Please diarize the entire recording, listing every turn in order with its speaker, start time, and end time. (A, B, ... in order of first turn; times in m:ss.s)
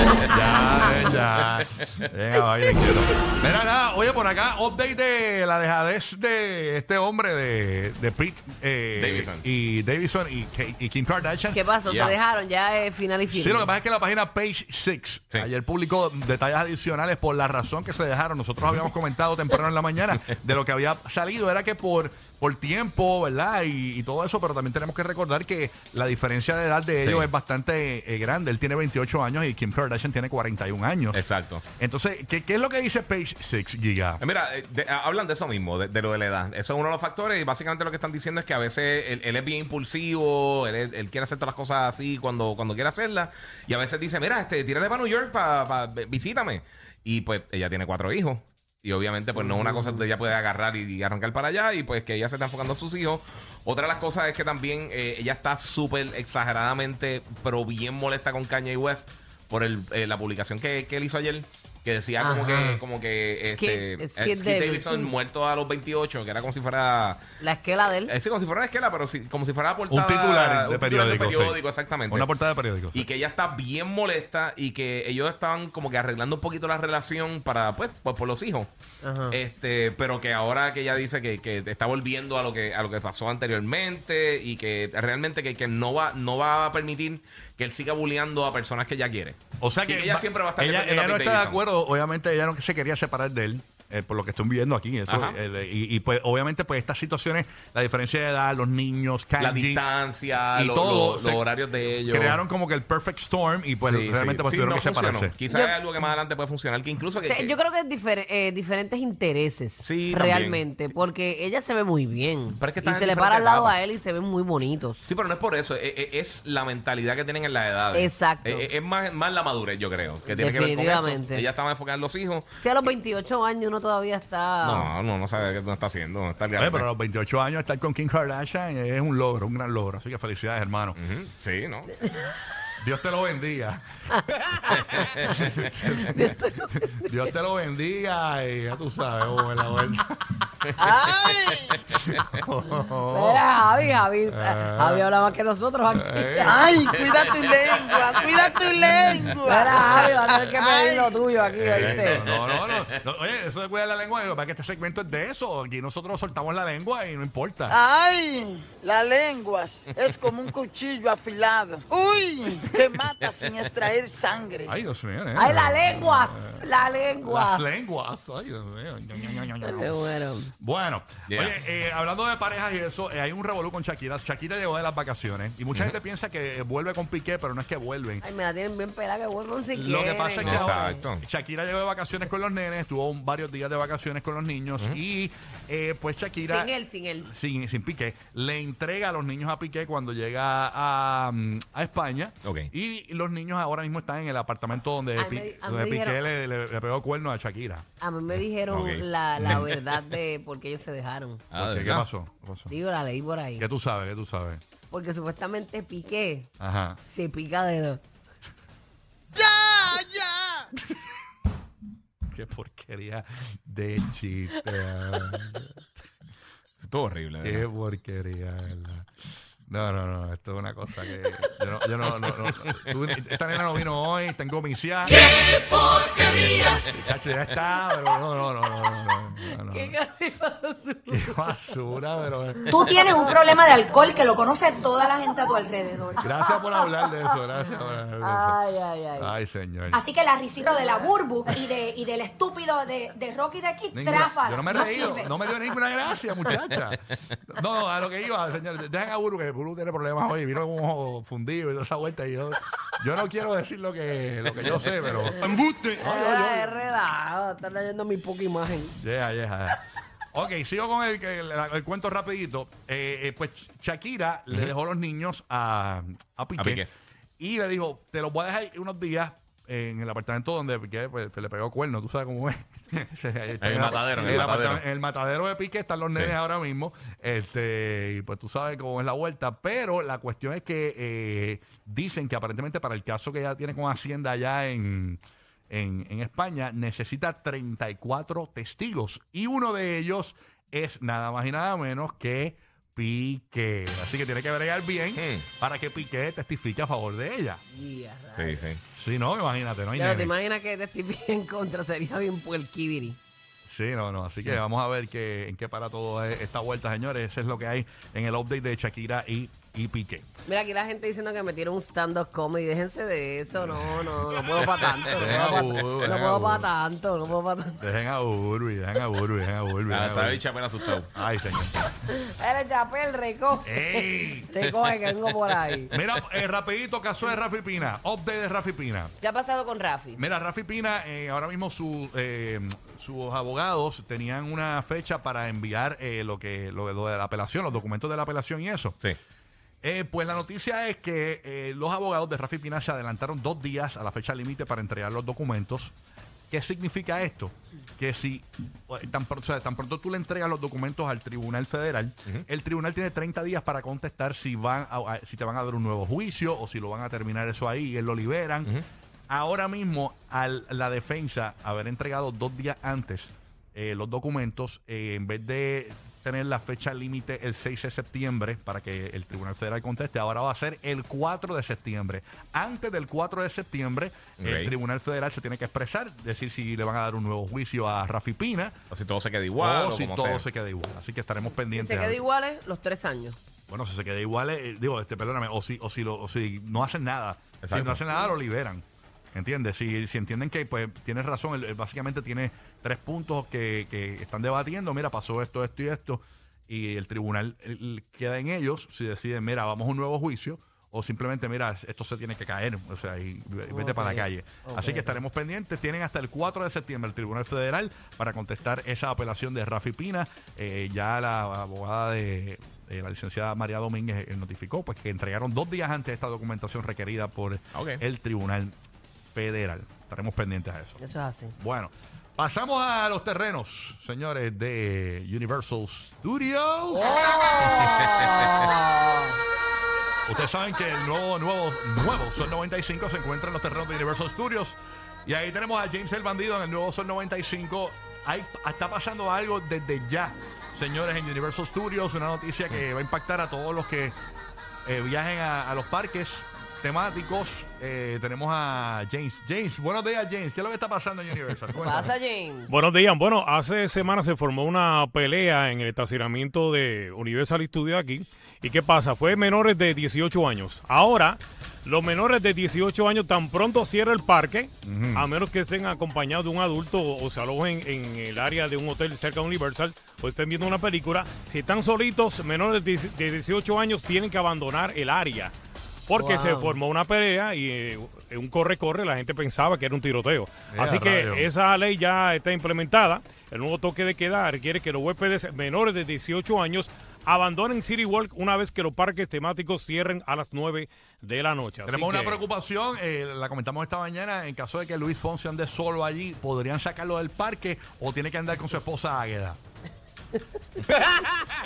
0:00.3-0:11.6 A
0:02.4-0:03.0 B
0:09.0-0:09.4 C
0:11.5-0:13.7 B
0:11.9-0:12.2 C
0:13.3-0:31.2 A
0:27.0-0:27.3 C
0:31.1-0:31.6 C
0:31.8-0:34.2 A
0:34.2-1:07.2 C
1:02.2-1:02.8 B
1:03.5-1:05.1 B
1:07.4-1:08.1 B
1:08.1-1:12.3 C
1:09.9-1:13.0 A
1:12.9-1:18.7 C
1:19.0-1:19.4 B
1:19.3-1:31.6 C
1:29.6-1:39.8 A
1:35.1-1:35.4 C
1:39.4-1:42.4 C
1:40.5-1:41.5 A
1:42.1-1:45.4 A
1:43.8-1:47.6 C
1:45.5-1:45.8 B
1:47.2-1:55.0 B
1:49.8-1:50.6 C
1:52.6-1:53.8 C
1:55.0-2:02.5 C
1:57.9-1:58.7 B
2:00.3-2:01.4 B
2:02.6-2:04.9 B
2:04.6-2:06.9 C
2:06.6-2:11.0 A
2:11.0-2:11.9 C
2:12.8-2:20.4 A
2:16.1-2:17.1 B
2:20.8-2:21.7 D
2:21.9-2:23.4 A
2:23.1-2:26.7 B
2:24.3-2:25.1 A
2:25.9-2:26.6 A
2:26.4-2:31.1 D
2:27.1-2:28.6 C
2:29.4-2:32.2 B
2:31.5-2:37.8 A
2:31.8-2:33.0 C
2:37.7-2:44.7 D
2:43.0-2:43.7 C
2:44.7-2:46.7 A
2:45.4-2:47.9 B
2:47.2-2:58.2 A
2:49.6-2:50.5 B
2:51.3-2:51.6 C
2:58.2-3:01.0 B
2:59.7-3:06.7 A
3:00.4-3:01.2 C
3:06.4-3:07.3 B
3:07.2-3:17.9 A
3:12.4-3:12.7 C
3:15.2-3:16.2 B
3:18.0-3:21.4 B
3:18.7-3:19.7 C
3:19.4-3:19.7 A
3:21.5-3:22.1 C
3:21.6-3:22.7 A
3:22.7-3:23.6 B
3:23.6-3:24.6 A
3:24.9-3:26.5 B
3:26.6-3:27.0 A
3:27.0-3:28.0 B
3:29.4-3:30.6 D
3:32.3-3:35.7 A
3:36.8-3:37.7 C
3:37.4-3:39.1 A
3:39.7-3:45.2 A
3:42.2-3:42.9 C
3:46.2-3:50.0 A
3:49.4-3:51.4 B
3:51.1-3:52.8 A
3:52.7-3:56.2 E
3:56.2-3:58.6 A
3:56.2-3:57.4 B
3:58.2-3:59.3 B
3:59.2-4:00.1 A
3:59.9-4:05.3 E
4:03.9-4:16.8 A
4:16.0-4:19.0 B
4:19.0-4:19.8 A
4:20.3-4:26.9 A
4:26.6-4:26.9 C
4:27.4-4:57.6 A
4:33.6-4:34.8 C
4:55.2-4:55.4 C
4:57.7-4:58.6 B
4:58.4-4:58.8 C
4:58.9-5:00.3 A
4:59.9-5:03.2 B
5:03.7-5:10.3 A
5:10.5-5:17.8 B
5:13.6-5:14.2 A
5:14.6-5:14.9 C
5:15.1-5:16.7 A
5:17.8-5:20.4 A
5:19.9-5:21.1 C
5:21.1-5:21.7 A
5:22.3-5:25.9 B
5:23.6-5:24.5 A
5:25.9-5:29.1 A
5:29.2-5:30.2 B
5:30.2-5:39.0 A
5:39.8-5:45.9 A
5:46.5-5:58.7 A
5:59.3-6:18.8 A
6:14.4-6:14.7 C
6:18.9-6:20.4 C
6:19.6-6:22.2 A
6:21.7-6:23.4 B
6:23.7-6:28.8 A
6:27.6-6:28.0 C
6:29.3-6:58.7 A
6:43.7-6:45.2 B
6:57.8-6:58.0 C
6:59.4-7:01.0 A
7:01.0-7:01.6 B
7:01.6-7:08.0 A
7:06.9-7:09.4 B
7:10.3-7:24.2 A
7:24.9-7:32.1 A
7:31.8-7:32.9 B
7:32.7-7:55.5 F
7:44.8-7:45.3 A
7:56.1-8:12.4 F
7:56.2-7:56.8 B
8:00.7-8:01.5 A
8:11.9-8:19.6 A